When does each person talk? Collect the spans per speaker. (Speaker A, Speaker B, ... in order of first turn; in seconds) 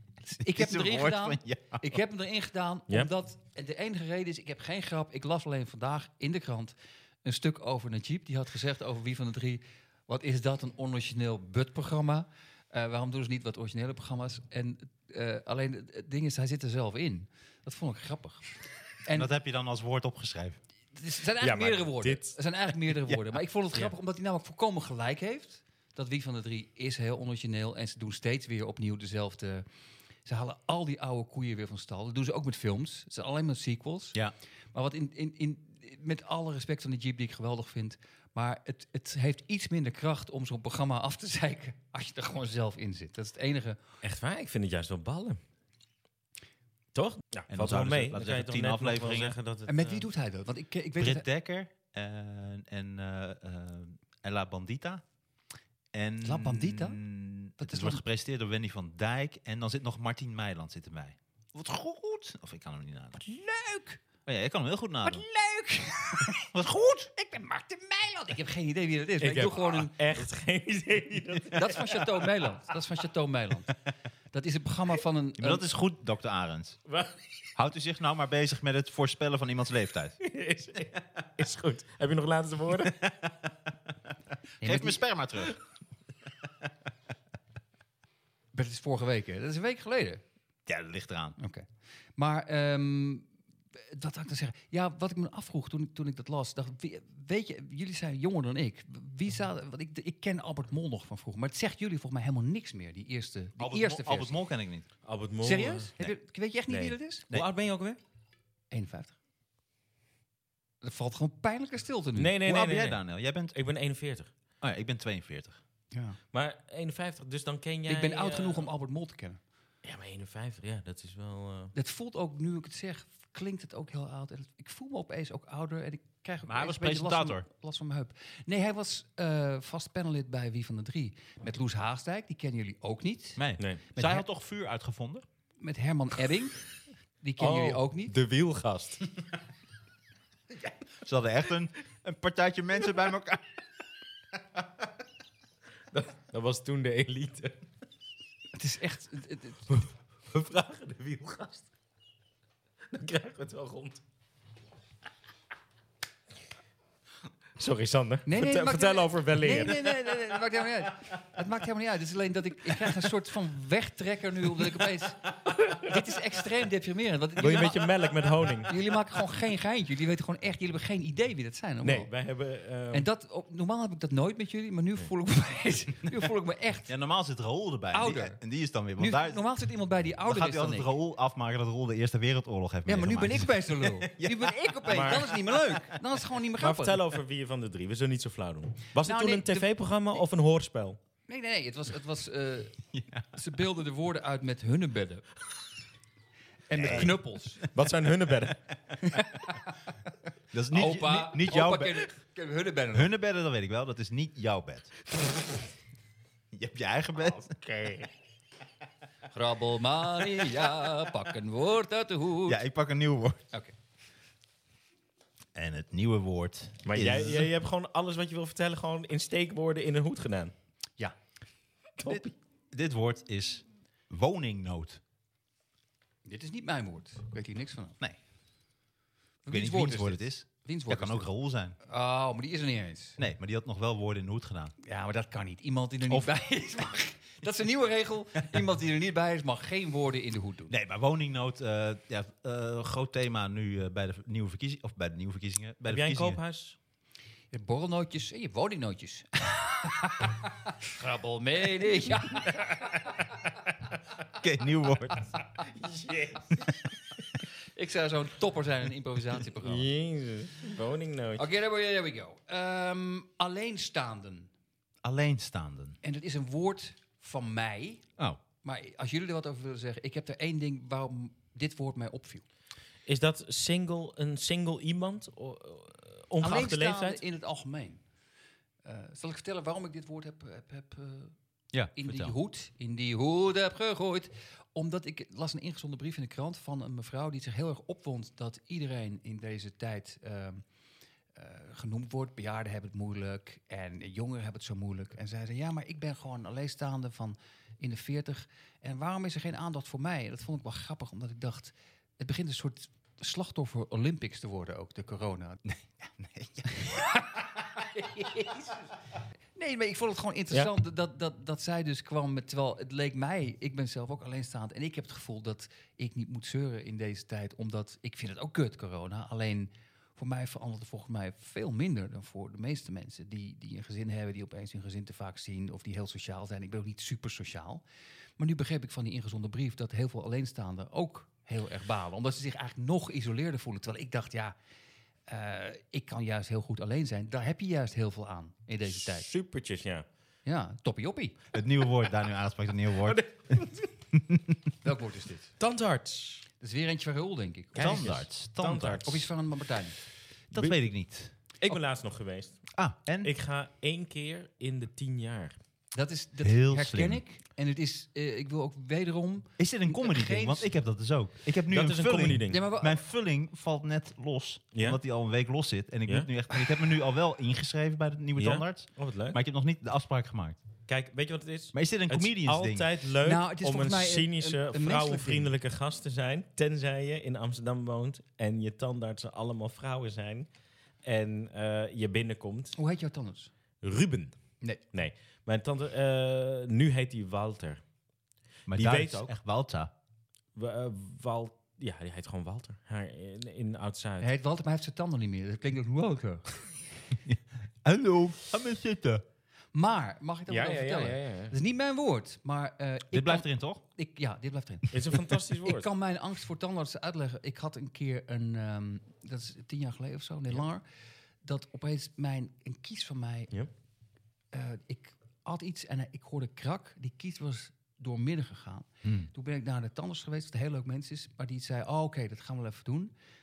Speaker A: 0.3-18.4, 19.0-19.3, 20.9-29.6, 30.2-34.2, 34.7-43.8, 49.7-51.2, 56.2-57.0, 57.6-58.0, 63.1-64.0, 65.0-66.5, 67.1-70.2, 71.5-73.7, 74.3-75.7, 84.6-85.0, 88.5-90.2, 91.4-104.4, 105.4-107.3, 108.7-109.2, 110.8-112.3, 115.9-116.2, 117.9-119.4, 121.7-133.4, 134.0-134.2, 135.6-136.6, 137.2-138.1, 148.5-149.7, 158.3-167.9, 168.6-172.1, 172.9-176.9, 177.9-178.4, 179.0-180.9, 182.9-187.0, 189.0-189.7, 191.3-192.8, 193.3-195.2, 196.7-197.6, 199.0-199.8, 200.7-203.1, 209.3-212.6, 226.2-228.0, 229.4-231.3, 231.8-233.2, 234.8-240.7, 247.5-253.3, 257.8-259.9, 261.4-264.5, 266.0-268.0, 268.6-272.4, 276.4-278.0, 278.9-281.3, 281.9-290.6, 291.4-305.6, 306.8-308.9, 309.6-327.8, 328.4-334.6, 335.3-339.3, 340.4-341.4, 344.8-345.5, 346.6-348.1, 349.0-349.9, 355.9-360.7, 362.5-363.0, 373.2-375.5, 382.8-383.5, 394.2-396.5, 399.7-410.8, 411.4-413.5, 414.5-423.1
Speaker B: 0.4-1.8, 19.1-20.6, 47.5-49.4, 51.0-55.0, 55.9-63.2, 64.3-65.2, 66.5-67.1, 75.4-76.8, 77.6-80.2, 82.9-83.5, 84.6-85.6, 90.7-91.4, 103.6-104.9, 112.4-113.5, 114.6-115.6, 126.5-127.5, 133.4-135.2, 141.0-143.4, 176.9-179.4, 180.3-185.6, 192.9-193.3, 196.8-197.1, 200.5-202.1, 202.9-205.1, 206.5-207.8, 212.5-213.4, 215.6-217.5, 222.1-225.0, 229.5-231.8, 233.2-234.8, 240.7-246.4, 254.3-255.3, 265.0-266.0, 281.7-282.4, 305.6-306.7, 341.5-344.6, 347.8-349.1, 350.5-351.3, 352.8-353.3, 356.4-357.2, 359.6-370.6, 371.7-372.9, 388.7-389.9, 397.2-399.2, 403.1-403.8, 419.0-419.3
Speaker C: 21.4-22.4, 44.0-45.4, 47.0-50.1, 69.2-72.3, 76.9-77.1, 80.2-83.0, 105.0-106.1, 106.7-108.0, 112.2-114.3, 116.3-118.7, 119.8-121.7, 137.4-139.0, 145.9-147.6, 149.7-151.7, 152.9-154.0, 157.6-159.9, 165.5-166.1, 167.4-168.9, 171.8-173.1, 184.9-185.3, 186.6-191.0, 197.6-198.6, 216.8-220.5, 222.0-222.3, 245.9-246.8, 255.6-256.7, 259.6-261.5, 273.1-277.2, 338.9-340.1, 343.0-343.8, 345.6-346.5, 347.8-349.3, 351.6-352.7, 353.2-355.6, 361.7-362.6, 364.7-365.0, 368.4-369.4, 370.9-380.5, 381.0-382.8, 383.8-384.4, 384.9-387.8, 388.7-389.3, 390.6-394.3, 400.5-401.6, 404.9-405.9